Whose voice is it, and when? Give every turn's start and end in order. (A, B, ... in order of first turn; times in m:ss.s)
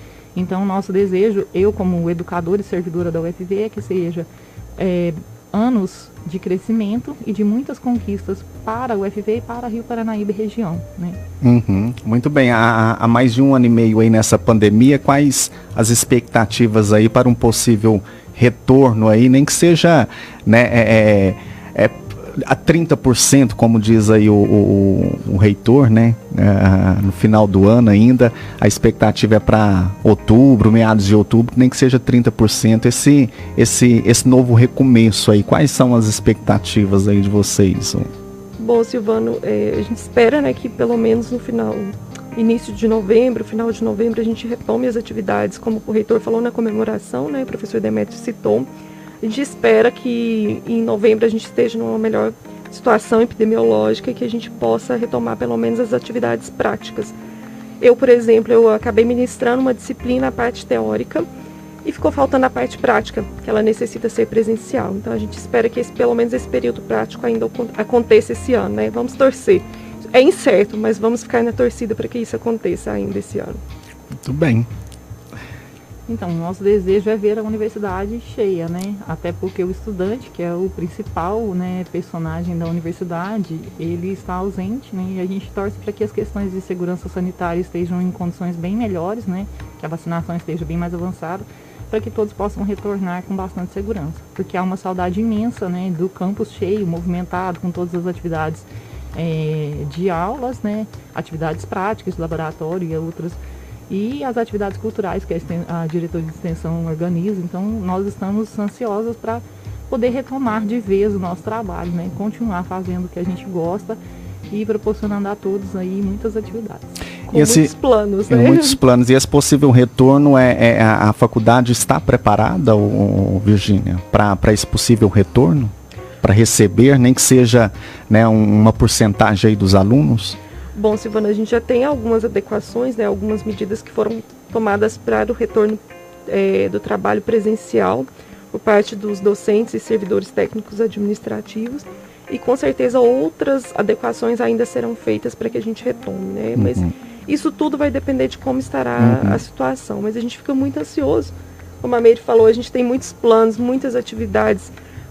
0:00.3-0:11.2 A
0:11.4-0:38.1 B
0:38.6-0:48.7 C
0:49.2-0:57.1 C
0:57.8-1:01.3 C
1:01.8-1:13.6 C
1:14.1-1:14.7 B
1:16.1-1:54.0 A
1:54.5-1:56.9 A
1:57.3-1:58.8 C
1:57.3-1:57.7 B
1:58.3-2:10.4 B
2:10.7-2:34.7 C
2:26.5-2:26.9 B
2:29.0-2:29.4 B